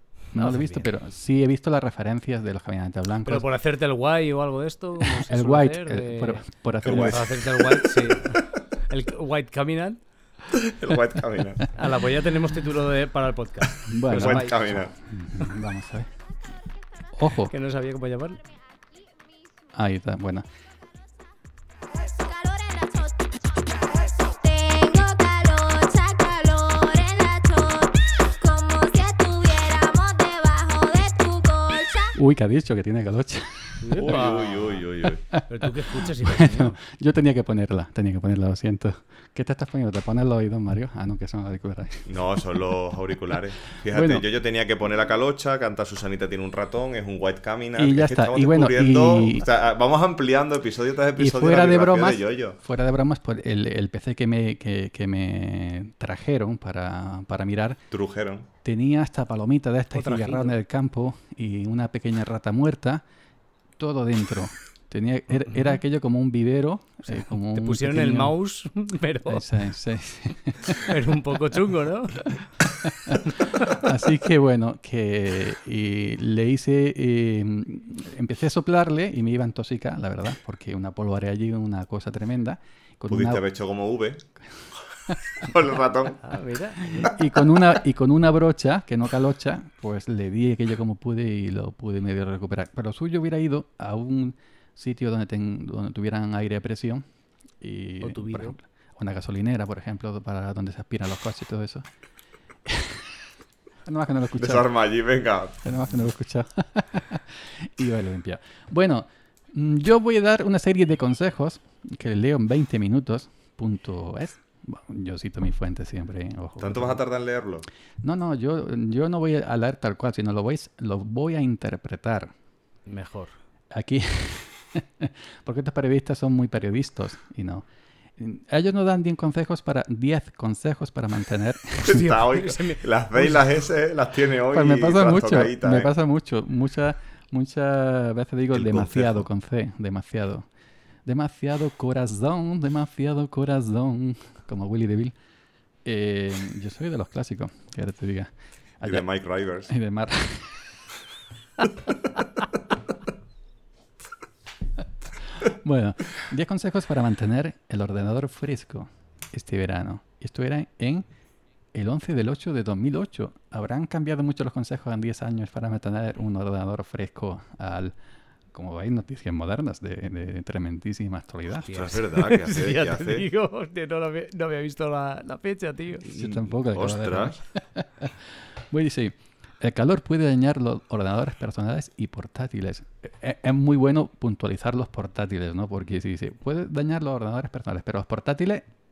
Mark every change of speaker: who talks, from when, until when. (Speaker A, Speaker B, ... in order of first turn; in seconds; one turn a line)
Speaker A: 0.3-0.9
Speaker B: 0.3-3.5
Speaker A: 3.3-10.0
Speaker B: 5.0-7.3
Speaker C: 6.8-7.9
Speaker C: 10.5-11.7
Speaker A: 11.8-14.6
Speaker B: 13.9-16.1
Speaker C: 14.1-15.0
Speaker B: 17.1-17.5
Speaker A: 17.5-18.4
Speaker B: 19.7-20.4
Speaker D: 21.9-32.1
Speaker B: 32.1-34.2
Speaker A: 33.8-34.8
Speaker C: 34.0-35.2
Speaker B: 35.3-42.7
Speaker A: 35.5-36.8
Speaker C: 42.1-52.6
Speaker B: 43.9-44.2
Speaker B: 47.8-49.5
Speaker B: 51.2-57.8
Speaker C: 57.9-58.5
Speaker B: 58.6-63.0
Speaker A: 60.0-60.6
Speaker B: 63.8-68.4
Speaker A: 67.1-69.5
Speaker B: 69.3-70.9
Speaker A: 70.7-72.4
Speaker B: 72.8-83.4
Speaker C: 83.1-84.2
Speaker C: 85.4-86.2
Speaker A: 86.2-87.1
Speaker B: 87.0-97.0
Speaker B: 97.6-101.9
Speaker A: 98.0-98.5
Speaker B: 102.7-103.1
Speaker B: 103.9-104.7
Speaker C: 104.4-105.6
Speaker B: 105.6-117.0
Speaker C: 116.6-117.7
Speaker B: 118.0-122.3
Speaker A: 122.9-123.3
Speaker B: 123.7-127.7
Speaker B: 128.2-132.1
Speaker A: 131.8-133.4
Speaker C: 131.8-135.9
Speaker B: 134.5-140.5
Speaker C: 138.5-139.3
Speaker B: 141.1-145.2
Speaker B: 145.8-149.1
Speaker C: 148.8-149.7
Speaker B: 149.7-150.6
Speaker B: 155.3-161.1
Speaker B: 161.7-168.0
Speaker B: 168.5-171.8
Speaker A: 171.6-176.1
Speaker C: 171.7-173.3
Speaker C: 176.1-177.4
Speaker B: 176.1-188.7